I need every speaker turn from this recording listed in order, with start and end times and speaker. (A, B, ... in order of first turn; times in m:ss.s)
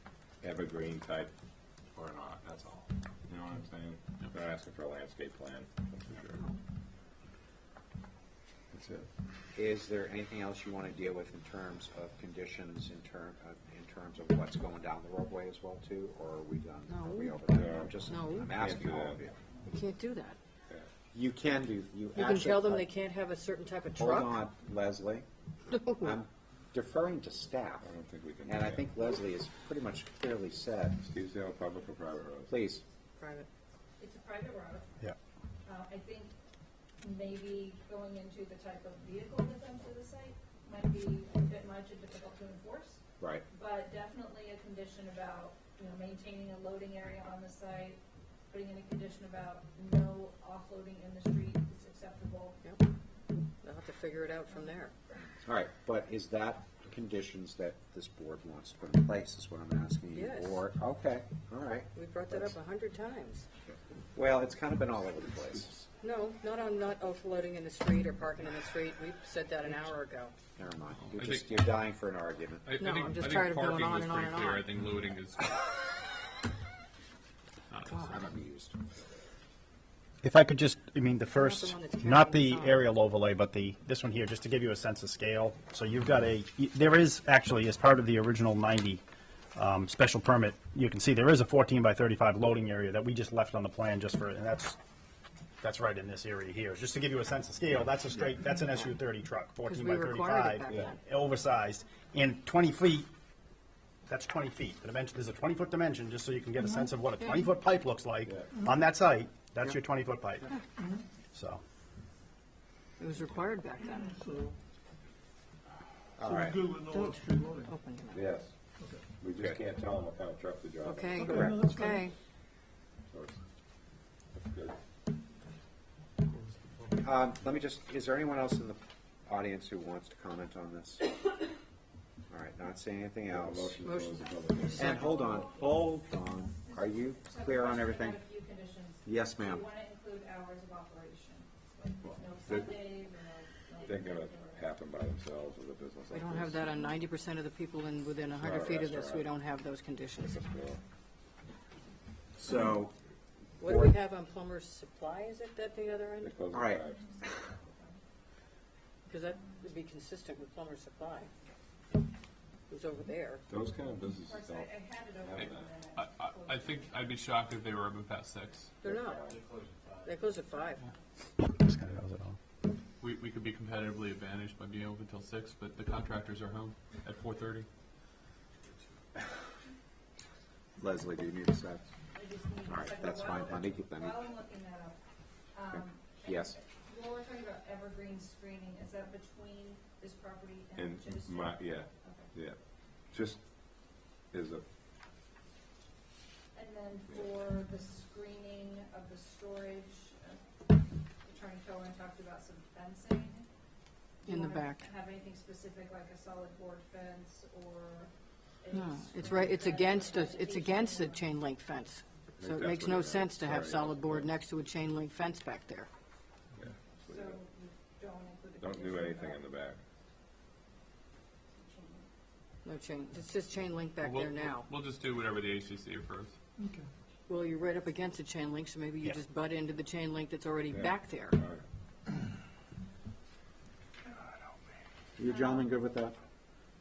0:00.4-0:01.3 A
0:01.9-0:06.4 A
0:08.7-0:09.1 A
0:09.5-0:19.3 B
0:16.9-0:17.4 C
0:17.5-0:19.2 A
0:18.1-0:18.6 C
0:19.7-0:20.4 C
0:21.1-0:22.9 B
0:22.1-0:24.4 C
0:24.0-0:25.2 B
0:25.9-0:27.9 B
0:27.8-0:28.9 A
0:28.4-0:31.0 B
0:31.0-0:32.5 A
0:32.5-0:32.8 B
0:33.2-0:33.5 C
0:34.0-0:35.0 D
0:35.6-0:36.3 D
0:37.0-0:52.6 D
0:43.2-0:43.4 B
0:53.6-0:54.9 C
0:55.4-1:02.5 B
1:00.1-1:00.6 C
1:01.9-1:03.5 C
1:04.1-1:05.8 B
1:06.0-1:10.3 C
1:10.6-1:12.7 B
1:11.0-1:11.6 E
1:12.6-1:15.7 E
1:12.8-1:14.7 C
1:17.7-1:18.3 E
1:18.0-1:18.8 B
1:20.2-1:29.0 F
1:21.3-1:22.9 C
1:29.6-1:34.8 F
1:35.6-1:43.1 F
1:39.6-1:41.0 C
1:44.1-1:50.5 F
1:51.3-1:51.6 F
1:53.0-1:54.2 C
1:56.2-1:56.7 B
1:56.4-1:57.4 G
1:56.9-1:58.2 C
1:58.1-1:58.5 A
1:59.1-2:01.3 A
2:00.8-2:02.1 C
2:01.3-2:01.9 G
2:03.1-2:03.4 A
2:04.3-2:04.8 A
2:07.0-2:11.1 B
2:12.3-2:13.9 B
2:13.3-2:15.2 A
2:13.8-2:14.9 C
2:14.2-2:24.6 D
2:14.7-2:18.2 B
2:19.0-2:19.6 B
2:23.8-2:26.6 A
2:26.1-2:30.4 C
2:28.3-2:29.3 A
2:30.2-2:30.8 A
2:32.4-2:32.9 B
2:33.6-2:33.9 B
2:33.6-2:36.3 C
2:36.2-2:37.0 A
2:36.5-2:36.8 B
2:36.9-2:38.0 D
2:39.1-2:41.3 C
2:42.7-2:43.4 C
2:43.5-2:45.7 A
2:44.2-2:47.1 D
2:45.9-2:48.7 E
2:48.8-2:49.2 C
2:48.8-2:49.5 A
2:49.3-2:50.0 G
2:50.0-2:50.8 C
2:51.4-2:52.4 F
2:53.0-2:57.7 E
3:00.8-3:01.8 B
3:02.1-3:05.0 D
3:02.7-3:04.2 B
3:05.5-3:12.3 D
3:05.7-3:06.6 B
3:10.7-3:12.6 A
3:13.1-3:13.4 A
3:14.3-3:14.6 A
3:16.5-3:20.4 D
3:21.2-3:23.5 D
3:24.2-3:31.3 D
3:24.2-3:24.8 C
3:28.7-3:35.9 C
3:32.4-3:34.3 A
3:36.6-3:37.4 A
3:36.9-3:39.4 D
3:38.6-3:39.8 A
3:41.5-3:42.1 D
3:42.6-3:44.7 C
3:44.0-3:46.4 E
3:47.3-3:51.4 C
3:50.7-3:51.6 A
3:55.2-3:56.2 B